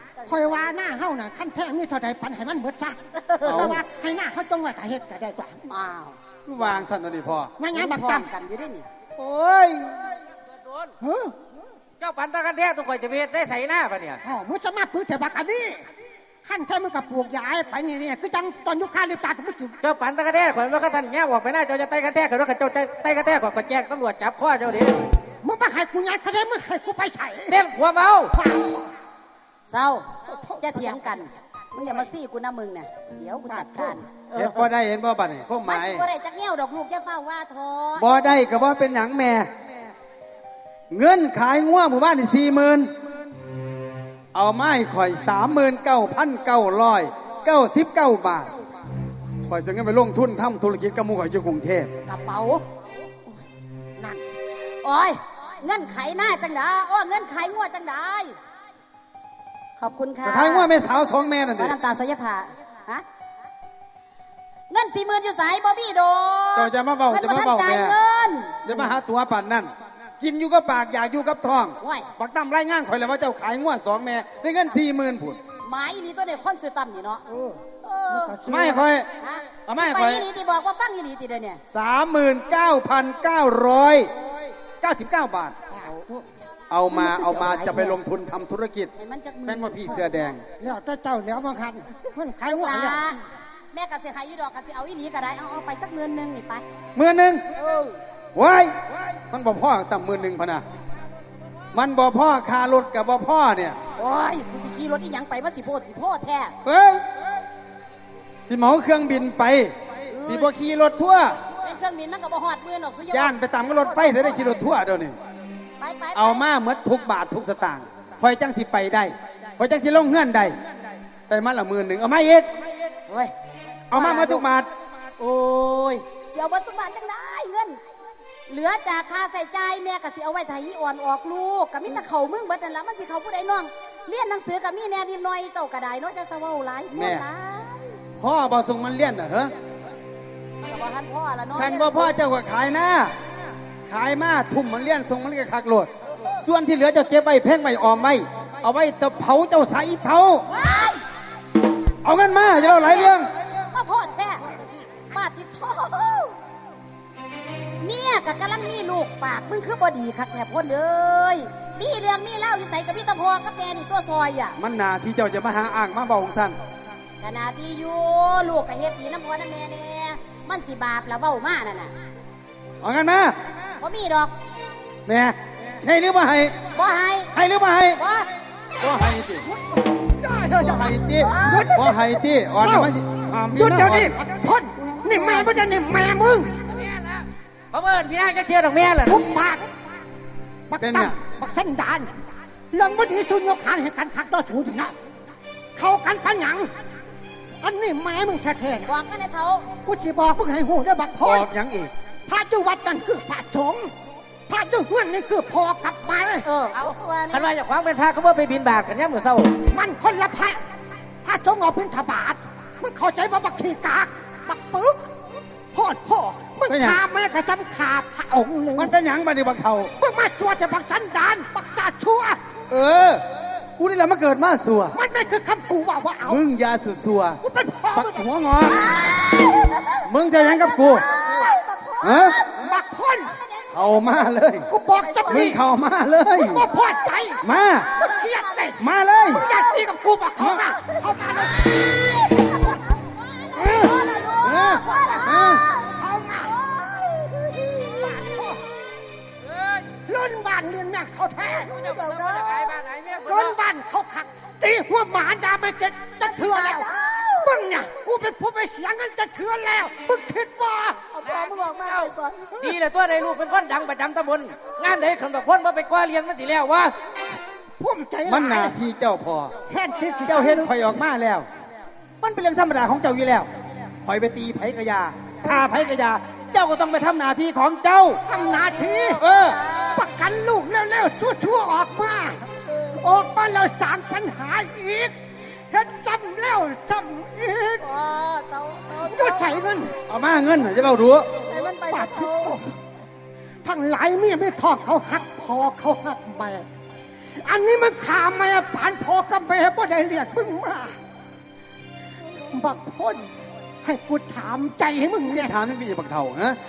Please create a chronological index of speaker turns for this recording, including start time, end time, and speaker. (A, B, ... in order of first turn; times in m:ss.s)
0:00.3-0:05.6 A
0:03.2-0:03.7 B
0:03.4-0:03.8 C
0:05.7-0:06.8 B
0:06.4-0:07.5 C
0:07.6-0:08.3 A
0:07.7-0:08.9 B
0:09.2-0:10.1 C
0:10.7-0:10.9 D
0:11.0-0:11.4 A
0:12.0-0:14.2 D
0:14.2-0:15.9 A
0:16.4-0:19.8 A
0:19.8-0:25.1 D
0:25.4-0:27.6 A
0:27.5-0:28.3 D
0:28.3-0:28.9 A
0:29.7-0:34.3 B
0:30.3-0:31.2 A
0:33.5-0:34.0 A
0:34.3-0:36.0 C
0:35.7-0:38.3 B
0:38.0-0:39.5 C
0:40.9-0:42.9 C
0:44.3-0:48.6 C
0:49.5-0:51.9 C
0:52.1-0:52.6 B
0:54.0-0:54.2 A
0:54.8-0:58.4 B
0:59.8-1:00.8 B
1:00.2-1:01.8 C
1:01.5-1:03.0 B
1:04.7-1:08.6 B
1:06.5-1:08.0 C
1:08.6-1:15.4 C
1:11.8-1:12.1 B
1:15.6-1:17.2 B
1:17.3-1:18.9 A
1:17.8-1:18.4 B
1:18.4-1:19.1 C
1:19.2-1:21.6 B
1:19.6-1:20.3 C
1:21.7-1:24.1 C
1:24.8-1:25.5 C
1:25.7-1:26.3 A
1:26.7-1:28.9 C
1:26.9-1:28.0 B
1:28.9-1:30.1 B
1:29.4-1:30.4 C
1:30.6-1:33.0 A
1:32.5-1:36.6 B
1:36.9-1:37.4 C
1:37.6-1:38.0 B
1:38.3-1:40.6 C
1:41.7-1:43.8 C
1:44.0-1:46.6 B
1:46.6-1:47.1 C
1:48.5-1:51.4 C
1:50.1-1:50.5 B
1:51.6-1:54.6 B
1:53.1-1:55.2 C
1:55.8-1:56.4 B
1:56.1-2:00.6 C
2:01.3-2:02.5 C
2:03.1-2:03.3 B
2:03.9-2:04.7 C
2:03.9-2:04.4 B
2:05.2-2:07.8 B
2:08.5-2:18.0 B
2:16.9-2:17.2 C
2:18.2-2:19.5 C
2:20.6-2:22.1 B
2:21.6-2:23.1 C
2:23.9-2:30.4 C
2:30.5-2:31.0 B
2:32.0-2:33.3 C
2:32.6-2:34.5 B
2:35.1-2:36.4 B
2:37.8-2:44.6 B
2:44.6-2:46.6 C
2:47.2-2:51.9 B
2:52.8-2:53.4 C
2:53.8-2:54.3 B
2:55.0-2:56.6 C
2:56.7-2:57.3 B
2:57.3-2:58.0 C
2:58.0-2:58.3 B
2:58.8-2:59.5 C
2:59.5-3:02.0 A
3:00.6-3:04.2 C
3:01.3-3:01.6 B
3:02.6-3:02.9 A
3:03.5-3:06.6 A
3:06.7-3:09.2 D
3:09.0-3:09.7 A
3:10.7-3:12.2 A
3:10.8-3:11.2 C
3:12.7-3:14.9 A
3:15.8-3:16.7 A
3:17.6-3:18.9 A
3:18.8-3:19.7 B
3:19.8-3:21.5 A
3:21.2-3:21.9 C
3:22.3-3:23.9 A
3:24.5-3:26.5 A
3:26.4-3:27.5 B
3:27.3-3:29.5 D
3:29.7-3:30.6 A
3:31.2-3:35.1 A
3:35.7-3:38.9 A
3:36.7-3:37.0 C
3:38.8-3:39.9 C
3:40.0-3:42.4 A
3:42.7-3:43.2 C
3:43.8-3:45.0 C
3:44.9-3:46.4 A
3:46.2-3:47.4 C
3:47.4-3:48.2 A
3:47.9-3:48.9 C
3:48.6-3:52.7 B
3:50.0-3:51.1 C
3:52.0-3:52.4 C
3:52.5-3:53.3 A
3:53.2-3:54.3 B
3:53.7-3:54.7 C
3:54.7-3:55.6 A
3:54.9-3:55.6 B
3:55.3-3:56.6 C
3:56.3-3:58.8 A
3:56.7-3:58.7 B
3:57.4-3:57.9 C
3:58.8-3:59.4 C
3:59.3-4:01.8 A
3:59.3-3:59.9 B
4:00.5-4:07.8 B
4:03.6-4:03.8 C
4:04.4-4:05.6 C
4:05.8-4:06.5 A
4:07.8-4:08.6 A
4:10.0-4:11.8 A
4:11.6-4:13.6 D
4:11.7-4:12.8 B
4:13.2-4:16.9 A
4:16.2-4:17.7 B
4:17.4-4:21.0 A
4:21.0-4:22.5 B
4:21.2-4:27.0 D
4:27.8-4:28.8 A
4:28.2-4:29.5 C
4:29.7-4:30.8 A
4:30.2-4:31.5 C
4:32.2-4:33.5 C
4:34.0-4:38.2 C
4:38.2-4:39.2 A
4:38.5-4:40.1 B
4:39.2-4:39.6 C
4:39.9-4:45.2 A
4:45.7-4:47.9 A
4:47.8-4:49.6 B
4:49.0-4:50.0 A
4:50.0-4:51.3 C
4:51.3-4:52.6 B
4:51.8-4:52.8 A
4:53.6-4:56.7 A
4:57.4-5:01.0 A
5:02.5-5:03.3 A
5:03.8-5:05.5 A
5:05.3-5:06.6 C